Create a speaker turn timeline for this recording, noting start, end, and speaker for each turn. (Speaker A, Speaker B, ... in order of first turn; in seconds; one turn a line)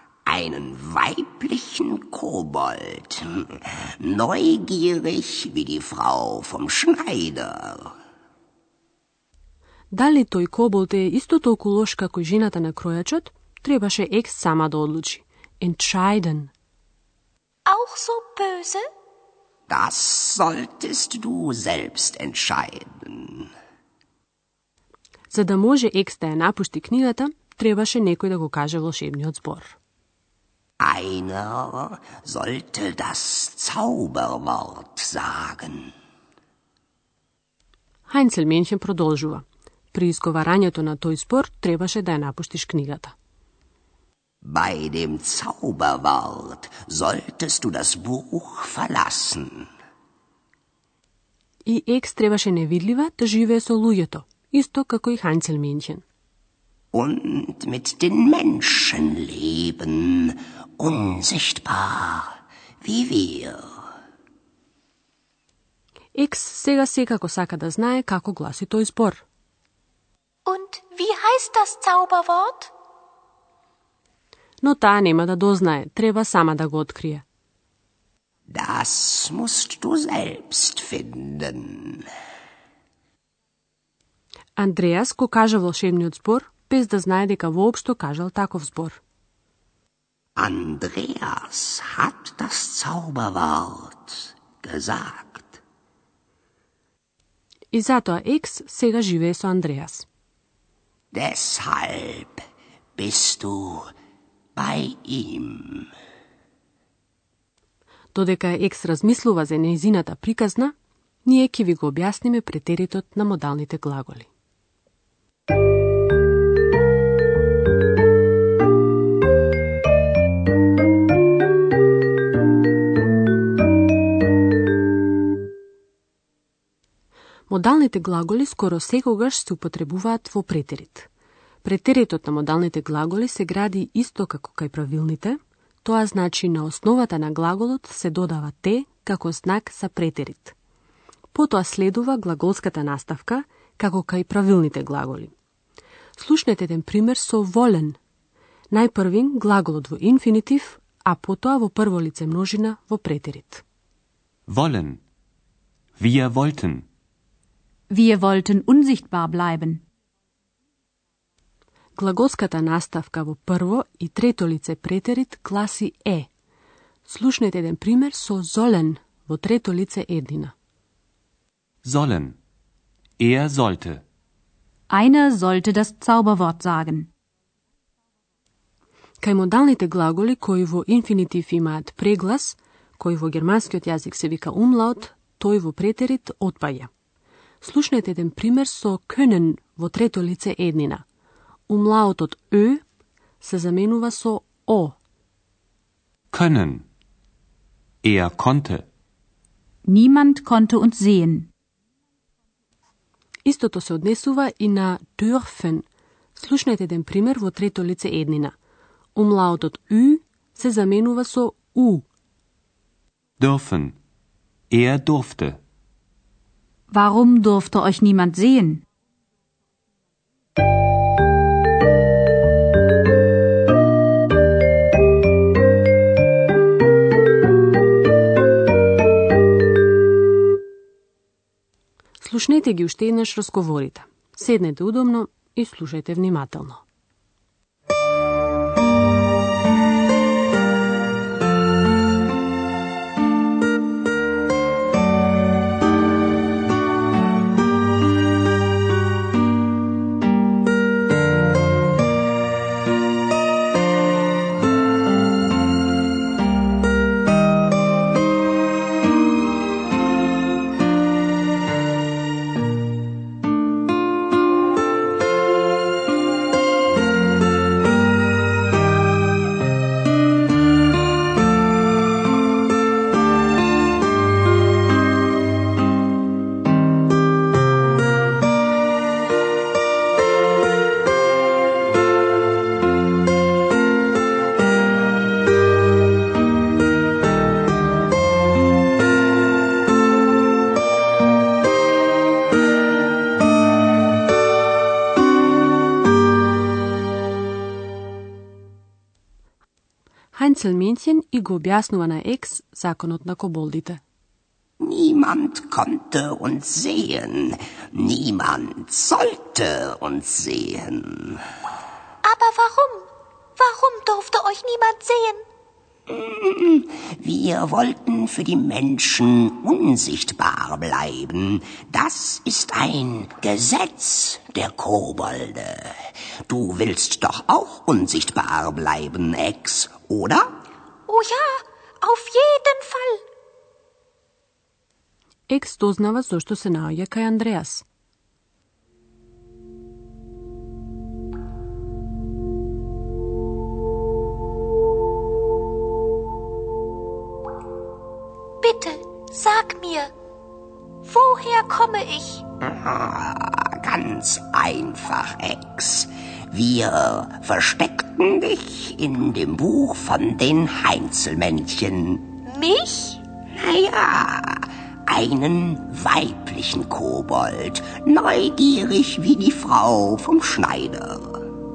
Speaker A: 0.3-7.9
Speaker B: 9.9-16.5
Speaker C: 17.7-18.8
Speaker A: 19.7-23.5
Speaker B: 25.3-29.8
Speaker A: 30.8-35.9
Speaker B: 38.1-43.1
Speaker A: 44.4-49.7
Speaker B: 51.6-56.0
Speaker A: 56.9-63.6
Speaker B: 66.1-69.2
Speaker C: 70.5-72.7
Speaker B: 74.6-77.2
Speaker A: 78.5-82.1
Speaker B: 84.6-89.0
Speaker A: 90.4-95.6
Speaker B: 97.7-100.1
Speaker A: 101.1-102.4
Speaker A: 103.0-103.9
Speaker A: 104.6-105.9
Speaker B: 108.1-114.3
Speaker B: 127.5-131.1
Speaker B: 131.6-140.6
Speaker B: 141.3-145.3
Speaker B: 146.2-148.0
Speaker B: 148.7-153.6
Speaker D: 154.5-155.0
Speaker D: 156.0-156.9
Speaker E: 157.9-159.8
Speaker B: 162.0-166.3
Speaker B: 167.1-170.5
Speaker D: 171.8-172.4
Speaker D: 173.2-174.0
Speaker E: 174.9-177.1
Speaker B: 179.2-186.9
Speaker B: 187.6-191.0
Speaker B: 191.7-192.8
Speaker B: 193.4-195.0
Speaker D: 196.3-196.9
Speaker D: 198.0-198.9
Speaker E: 199.9-201.5
Speaker B: 203.5-208.5
Speaker B: 209.2-212.1
Speaker D: 213.4-214.0
Speaker D: 214.7-215.6
Speaker E: 216.9-218.8
Speaker B: 232.2-236.8
Speaker B: 300.3-304.0
Speaker A: 304.8-311.4
Speaker C: 312.2-315.4
Speaker A: 316.1-330.4
Speaker C: 331.1-333.2
Speaker B: 335.5-337.9
Speaker C: 348.6-350.1
Speaker C: 351.1-352.5
Speaker A: 352.6-362.3
Speaker C: 362.5-363.2
Speaker A: 363.6-371.4